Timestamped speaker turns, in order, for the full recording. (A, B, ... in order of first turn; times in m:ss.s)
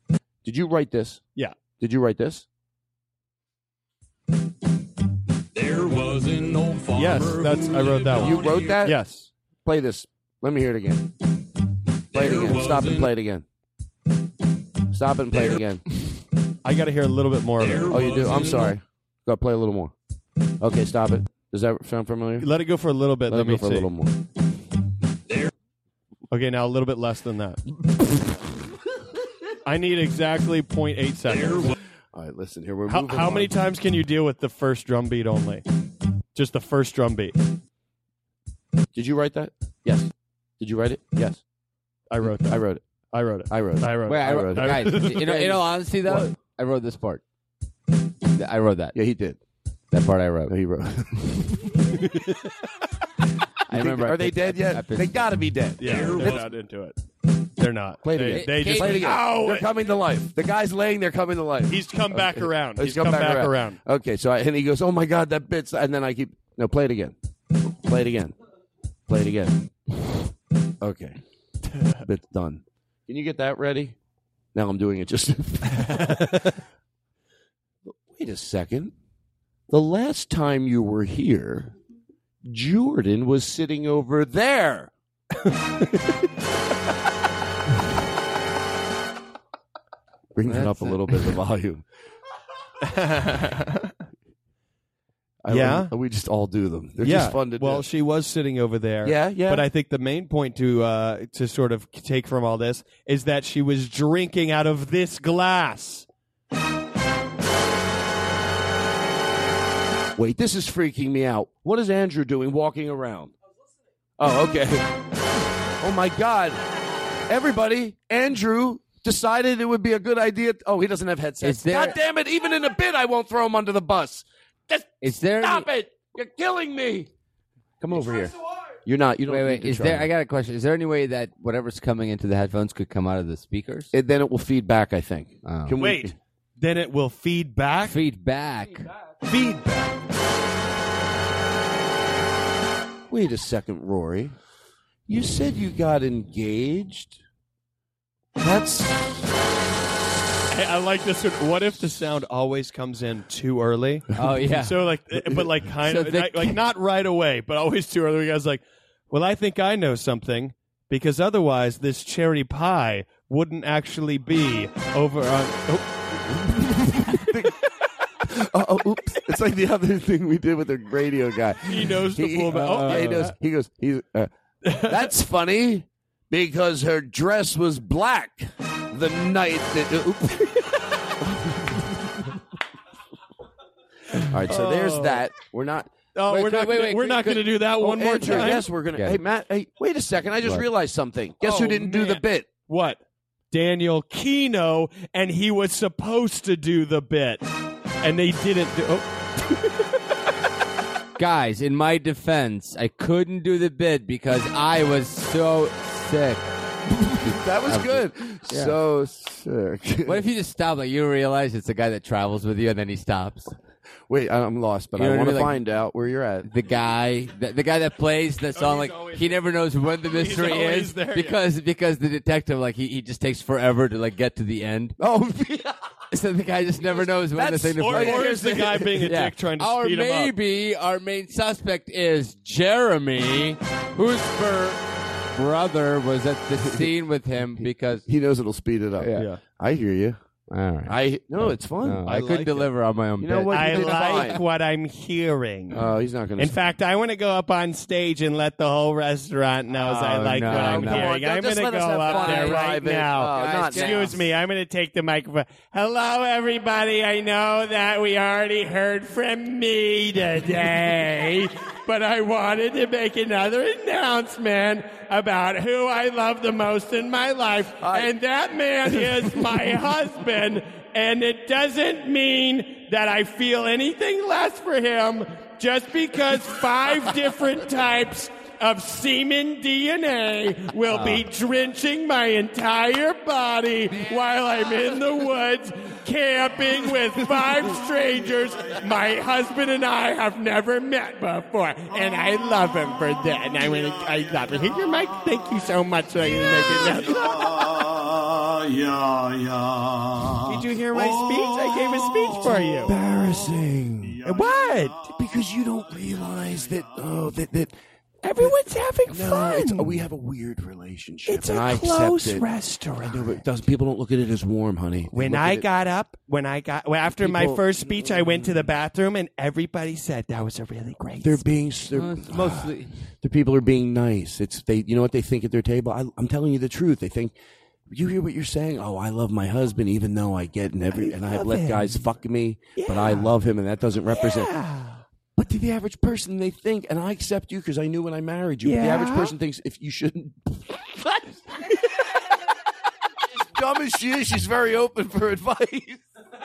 0:00.4-0:01.2 A
0:01.8-0:02.5 A
0:05.5-0:08.9 B
0:07.0-0:09.3 C
0:08.2-0:09.0 A
0:09.6-0:11.1 A
0:12.1-0:13.1 B
0:12.1-0:13.4 A
0:14.9-0:15.8 A
0:16.6-0:18.0 C
0:17.6-0:18.7 B
0:17.9-0:19.9 A
0:20.6-0:22.5 A
0:22.4-0:23.9 C
0:23.3-0:24.2 A
0:26.3-0:27.6 C
0:29.6-0:31.7 C
0:31.4-0:31.7 B
0:32.1-0:33.5 A
0:32.9-0:35.6 C
0:36.4-0:37.4 C
0:39.0-0:41.4 A
0:42.1-0:45.5 C
0:42.3-0:42.8 A
0:43.5-0:45.5 A
0:44.1-0:47.2 D
0:46.0-0:46.3 A
0:48.4-0:49.0 D
0:48.9-0:49.4 A
0:49.9-0:50.5 D
0:50.5-0:51.8 A
0:52.0-0:52.5 C
0:53.7-0:55.3 D
0:53.7-0:56.4 A
0:55.8-0:57.0 C
0:55.8-0:56.4 B
0:57.6-0:59.7 C
0:58.0-1:07.2 A
0:58.3-0:59.2 D
1:01.7-1:03.8 C
1:07.8-1:08.4 A
1:09.1-1:09.6 A
1:10.8-1:11.2 A
1:11.7-1:12.0 C
1:12.0-1:14.0 A
1:14.6-1:16.5 A
1:15.7-1:16.5 C
1:18.1-1:18.9 A
1:19.7-1:21.7 A
1:22.4-1:24.9 A
1:25.4-1:26.2 C
1:30.4-1:31.8 A
1:30.5-1:31.2 D
1:32.8-1:34.0 C
1:35.4-1:37.8 A
1:35.5-1:35.9 C
1:37.0-1:46.1 C
1:39.0-1:39.7 A
1:50.2-1:53.3 A
1:54.2-1:54.9 A
1:55.8-1:56.6 A
1:57.3-2:07.1 A
2:01.4-2:02.0 D
2:05.0-2:05.7 D
2:07.8-2:08.3 A
2:08.8-2:10.1 A
2:09.3-2:13.9 D
2:13.9-2:16.1 A
2:15.4-2:15.8 D
2:15.8-2:18.0 C
2:17.8-2:18.9 D
2:19.3-2:19.9 C
2:23.1-2:24.4 A
2:25.1-2:27.2 A
2:28.4-2:29.3 A
2:30.5-2:47.2 C
2:34.2-2:34.8 D
2:35.8-2:36.6 D
2:47.0-2:47.6 A
2:48.2-3:00.8 A
2:51.7-2:53.4 C
2:52.5-2:53.3 D
2:54.6-2:55.1 C
3:04.3-3:05.9 A
3:04.4-3:05.3 C
3:06.2-3:08.7 C
3:06.3-3:07.5 D
3:07.8-3:12.5 A
3:08.2-3:09.2 D
3:11.4-3:19.8 C
3:21.2-3:26.5 D
3:27.1-3:30.3 A
3:27.2-3:28.8 D
3:30.1-3:33.5 D
3:34.1-3:36.5 A
3:35.0-3:35.6 D
3:36.4-3:45.0 D
3:38.6-3:39.4 C
3:40.0-3:41.4 C
3:45.0-3:45.8 A
3:46.1-3:58.0 D
3:47.3-3:49.0 A
3:47.8-3:50.3 C
3:56.6-3:56.9 A
3:57.6-4:00.2 A
3:59.0-3:59.3 D
3:59.2-3:59.4 C
4:00.5-4:04.4 D
4:00.9-4:02.4 A
4:02.1-4:02.6 C
4:03.2-4:04.4 A
4:03.5-4:05.8 C
4:05.7-4:06.6 A
4:06.4-4:57.6 C
4:09.8-4:11.2 D
4:10.4-4:14.2 A
4:12.1-4:14.2 D
4:27.8-4:28.1 A
4:40.9-4:41.2 D
4:56.9-4:57.4 A
4:57.5-5:00.3 E
5:00.5-5:03.0 C
5:00.6-5:01.2 A
5:02.0-5:02.4 E
5:02.8-5:04.2 A
5:04.2-5:05.1 C
5:05.0-5:07.8 A
5:08.2-5:10.0 C
5:09.1-5:12.4 A
5:11.3-5:13.4 C
5:13.0-5:15.7 A
5:15.1-5:21.4 C
5:17.2-5:18.6 A
5:21.2-5:22.7 A
5:21.9-5:22.9 D
5:23.2-5:27.3 A
5:27.9-5:34.5 A
5:30.9-5:32.0 C
5:32.8-5:33.3 C
5:34.1-5:35.0 C
5:35.4-5:41.7 A
5:38.6-5:39.4 C
5:43.3-5:46.0 A